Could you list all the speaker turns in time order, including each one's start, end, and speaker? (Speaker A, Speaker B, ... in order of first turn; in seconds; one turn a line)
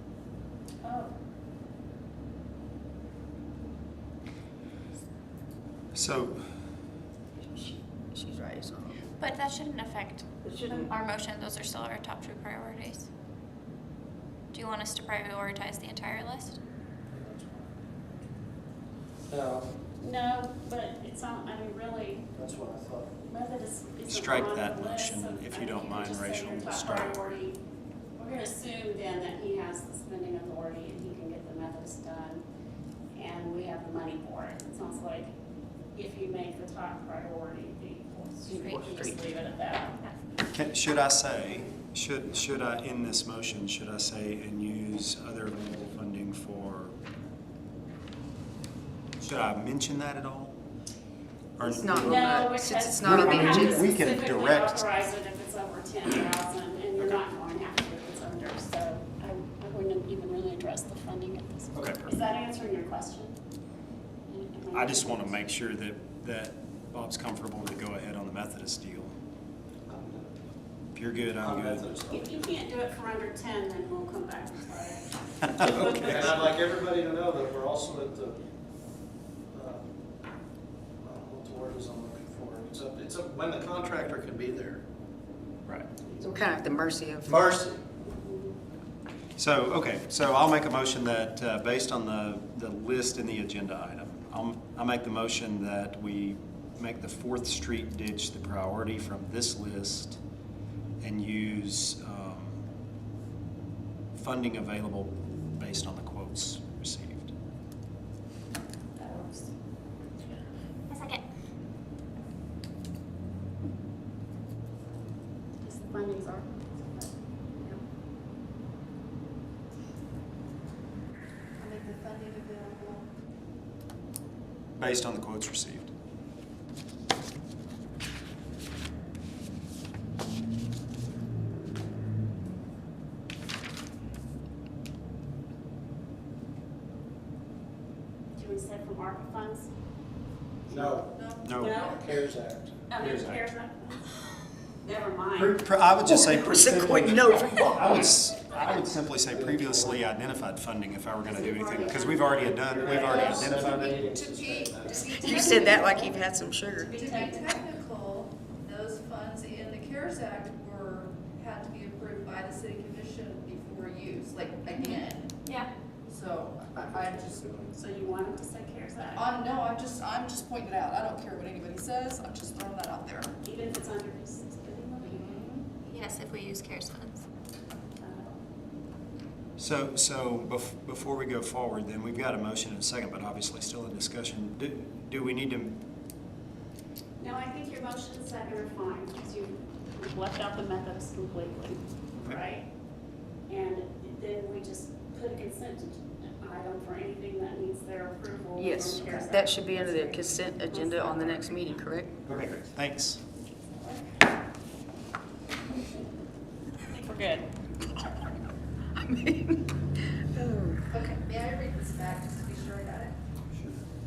Speaker A: 0.8-1.1
Speaker B: 5.9-6.5
Speaker C: 7.5-9.1
Speaker D: 9.2-13.1
Speaker C: 10.4-10.9
Speaker D: 14.5-16.6
Speaker E: 17.1-17.7
Speaker E: 19.3-19.7
Speaker A: 20.0-22.3
Speaker E: 22.3-23.2
Speaker A: 23.3-27.6
Speaker B: 24.1-27.2
Speaker A: 28.2-32.4
Speaker A: 33.1-35.3
Speaker A: 35.9-39.9
Speaker C: 38.5-39.2
Speaker D: 38.6-39.0
Speaker D: 39.9-40.2
Speaker B: 40.5-47.0
Speaker B: 49.2-50.5
Speaker B: 51.6-52.3
Speaker C: 51.6-53.9
Speaker A: 51.9-63.4
Speaker B: 53.0-54.9
Speaker B: 61.7-62.1
Speaker A: 64.3-65.3
Speaker B: 64.7-69.1
Speaker E: 69.9-70.3
Speaker B: 70.9-71.9
Speaker E: 71.4-72.5
Speaker A: 72.1-75.9
Speaker E: 75.6-78.4
Speaker E: 79.5-80.0
Speaker E: 81.0-84.8
Speaker C: 86.2-87.5
Speaker E: 87.2-87.8
Speaker A: 88.0-88.6
Speaker B: 89.4-100.2
Speaker B: 101.0-102.6
Speaker B: 104.1-107.3
Speaker A: 108.9-109.5
Speaker D: 110.9-111.2
Speaker A: 115.6-117.1
Speaker F: 121.6-123.1
Speaker B: 124.8-125.9
Speaker A: 138.3-139.7
Speaker E: 140.7-141.1
Speaker F: 140.7-142.1
Speaker B: 141.4-141.8
Speaker A: 141.5-142.2
Speaker E: 141.8-142.8
Speaker A: 142.9-144.0
Speaker B: 142.9-143.4
Speaker A: 144.8-145.6
Speaker B: 145.3-154.0
Speaker C: 146.0-148.1
Speaker E: 149.2-150.0
Speaker A: 151.2-153.5
Speaker E: 152.7-155.1
Speaker F: 152.8-156.2
Speaker C: 155.1-157.0
Speaker A: 156.8-157.6
Speaker F: 156.9-165.4
Speaker F: 166.1-167.6
Speaker E: 166.7-167.8
Speaker A: 167.8-169.3
Speaker F: 169.1-173.3
Speaker A: 173.4-175.5
Speaker D: 175.8-177.2
Speaker A: 178.0-178.4
Speaker B: 179.6-185.8
Speaker A: 187.2-192.7
Speaker A: 193.5-201.8
Speaker C: 198.6-202.2
Speaker B: 202.2-203.2
Speaker A: 203.7-204.2
Speaker A: 205.7-206.0
Speaker A: 206.9-207.5
Speaker C: 208.9-210.9
Speaker F: 210.9-213.1
Speaker B: 213.5-213.8